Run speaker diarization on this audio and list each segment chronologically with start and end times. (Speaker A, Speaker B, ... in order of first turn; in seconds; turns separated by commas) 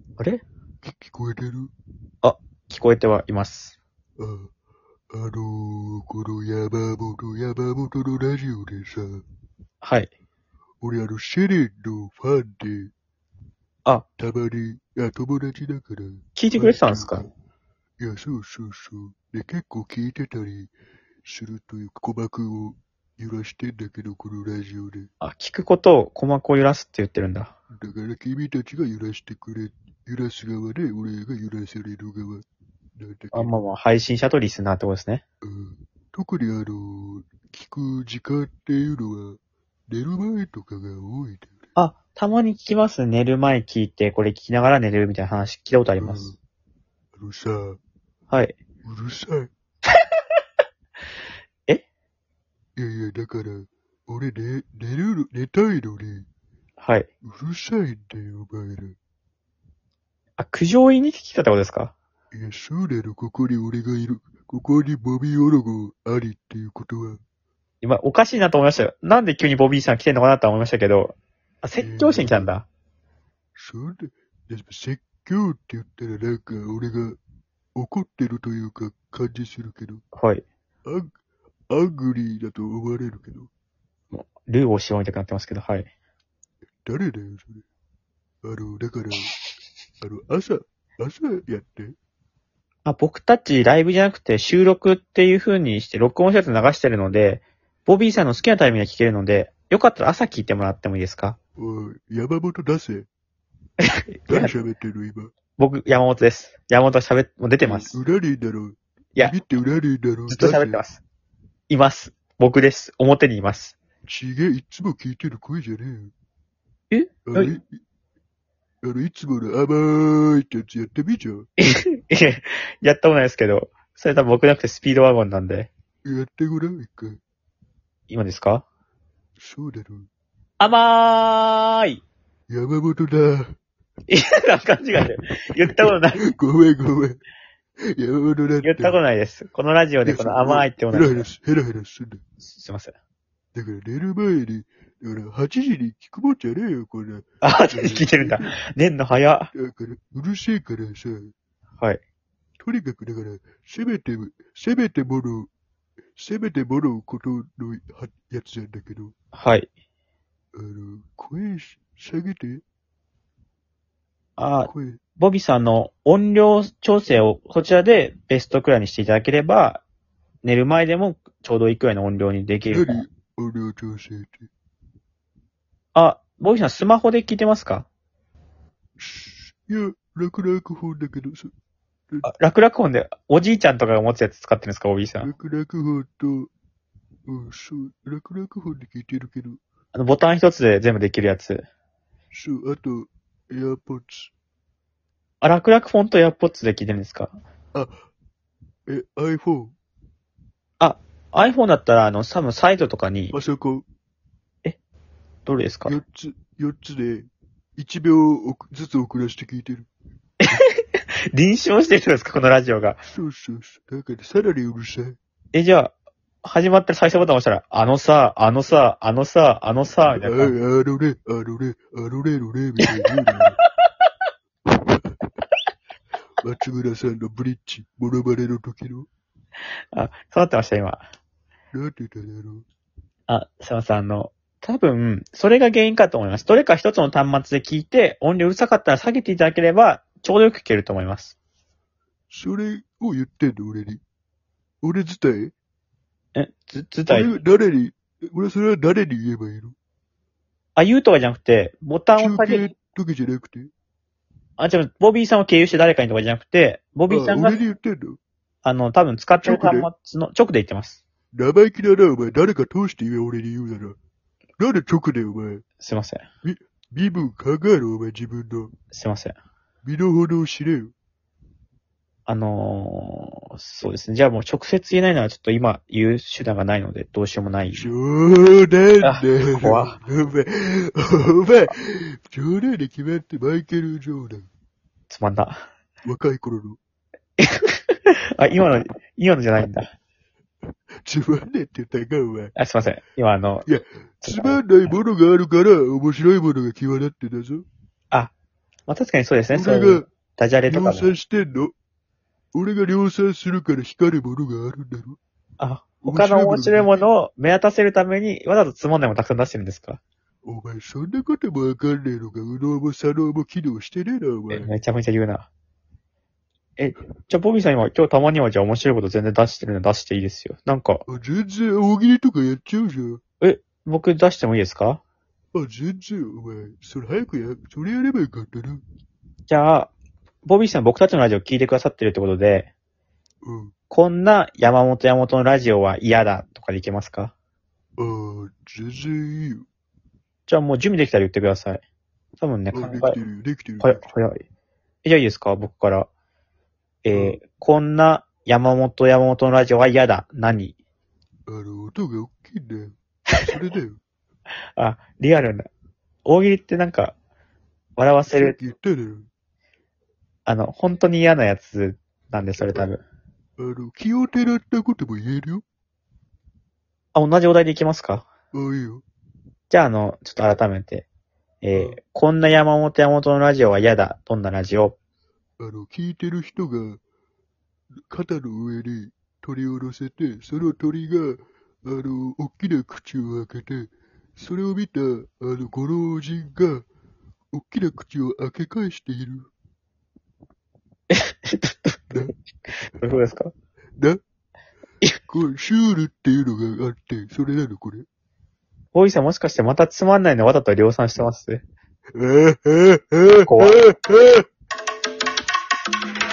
Speaker A: 0.8-1.7, Speaker B: 2.2-3.8, Speaker A: 4.2-4.5, Speaker A: 5.1-9.2, Speaker B: 9.8-10.1, Speaker A: 10.8-12.9, Speaker A: 14.2-17.3, Speaker B: 16.4-17.2, Speaker A: 18.0-20.7, Speaker A: 21.2-25.1, Speaker B: 25.2-27.5, Speaker A: 27.8-32.4, Speaker A: 33.0-33.5, Speaker B: 33.3-35.2, Speaker A: 35.4-39.4, Speaker A: 39.9-41.7, Speaker B: 41.8-46.3, Speaker A: 46.0-46.4, Speaker A: 47.1-47.8, Speaker B: 48.3-48.6, Speaker A: 48.8-49.5, Speaker A: 52.8-56.2, Speaker B: 56.8-57.1, Speaker A: 57.2-59.0, Speaker B: 60.4-61.9, Speaker A: 62.3-67.2, Speaker B: 67.8-72.7, Speaker A: 71.8-72.5, Speaker A: 73.5-77.2, Speaker A: 77.8-80.0, Speaker B: 80.1-80.4, Speaker A: 81.7-83.5, Speaker B: 84.1-85.9, Speaker A: 86.8-87.6, Speaker A: 88.4-89.3, Speaker A: 90.0-91.9, Speaker B: 92.8-101.4, Speaker A: 101.6-103.1, Speaker B: 103.8-104.5, Speaker A: 104.3-105.3, Speaker B: 105.6-108.0, Speaker A: 107.6-110.8, Speaker B: 110.3-111.0, Speaker B: 111.7-113.7, Speaker A: 114.1-116.1, Speaker B: 116.9-117.5, Speaker A: 117.3-117.8, Speaker A: 118.8-121.4, Speaker B: 121.6-125.7, Speaker A: 126.0-127.2, Speaker B: 128.1-128.6, Speaker A: 129.4-130.1, Speaker B: 130.6-132.0, Speaker A: 132.5-133.5, Speaker B: 134.1-136.2, Speaker A: 135.9-137.2, Speaker A: 137.9-139.0, Speaker B: 138.6-141.2, Speaker A: 140.1-142.2, Speaker B: 142.4-142.9, Speaker A: 143.5-148.5, Speaker B: 147.4-149.5, Speaker A: 149.5-151.3, Speaker A: 152.6-155.5, Speaker A: 156.2-159.1, Speaker B: 159.3-159.7, Speaker A: 160.5-162.6, Speaker B: 164.4-169.8, Speaker A: 164.6-165.0, Speaker B: 170.4-173.0, Speaker A: 172.7-174.5, Speaker B: 175.9-177.9, Speaker A: 179.0-181.5, Speaker B: 182.2-185.3, Speaker A: 185.2-186.5, Speaker A: 187.3-189.6, Speaker B: 189.9-191.7, Speaker A: 192.3-194.3, Speaker B: 195.4-197.3, Speaker A: 198.9-199.7, Speaker B: 200.8-203.3, Speaker A: 203.3-203.8, Speaker B: 205.4-205.9, Speaker A: 205.8-209.9, Speaker B: 210.5-213.0, Speaker A: 213.1-215.2, Speaker B: 215.5-215.9, Speaker B: 216.4-220.5, Speaker A: 220.2-223.6, Speaker A: 224.7-225.3, Speaker A: 226.4-229.1, Speaker B: 229.9-231.0, Speaker A: 231.7-232.6, Speaker B: 233.3-241.3, Speaker A: 242.3-244.0, Speaker A: 244.8-245.5, Speaker B: 246.3-247.3, Speaker A: 247.1-249.7, Speaker B: 250.8-252.7, Speaker A: 252.2-253.7, Speaker B: 254.6-257.6, Speaker A: 257.1-258.2, Speaker B: 258.6-261.0, Speaker A: 259.4-259.9, Speaker A: 261.3-263.9, Speaker A: 264.6-265.6, Speaker B: 265.8-266.2, Speaker A: 266.4-268.7, Speaker B: 268.9-269.4, Speaker A: 269.8-270.9, Speaker B: 272.3-277.9, Speaker A: 277.7-284.5, Speaker B: 279.0-280.0, Speaker B: 285.1-285.6, Speaker A: 286.1-286.8, Speaker B: 287.4-289.9, Speaker A: 291.1-292.5, Speaker B: 292.6-293.7, Speaker A: 293.6-297.6, Speaker B: 294.2-294.7, Speaker B: 298.9-301.1, Speaker A: 299.5-300.0, Speaker A: 300.7-301.7, Speaker A: 302.5-305.2, Speaker B: 305.6-310.0, Speaker A: 306.0-307.1, Speaker A: 310.4-314.7, Speaker B: 314.5-315.5, Speaker B: 316.8-321.0, Speaker A: 321.1-323.2, Speaker B: 323.4-325.0, Speaker A: 325.5-328.8, Speaker B: 329.5-329.9, Speaker B: 330.4-332.7, Speaker A: 333.4-333.7, Speaker B: 333.9-337.3, Speaker A: 338.0-339.6, Speaker B: 340.5-341.8, Speaker B: 342.4-343.2, Speaker A: 342.7-344.1, Speaker B: 343.8-344.4, Speaker B: 345.0-346.1, Speaker B: 347.0-350.7, Speaker A: 347.1-347.4, Speaker A: 351.5-354.0, Speaker B: 354.8-355.7, Speaker B: 356.2-357.1, Speaker B: 358.0-358.6, Speaker A: 358.3-359.3, Speaker B: 360.4-363.0, Speaker A: 362.6-362.9, Speaker A: 363.6-365.6, Speaker B: 367.1-368.3, Speaker A: 368.5-369.0, Speaker B: 369.7-371.1, Speaker B: 371.6-374.9, Speaker A: 371.7-372.0, Speaker A: 375.6-377.0, Speaker A: 378.1-386.8, Speaker A: 387.5-389.5, Speaker B: 391.1-392.1, Speaker B: 392.7-393.5, Speaker A: 395.3-398.0, Speaker B: 398.9-401.6, Speaker A: 402.1-404.4, Speaker B: 403.4-403.8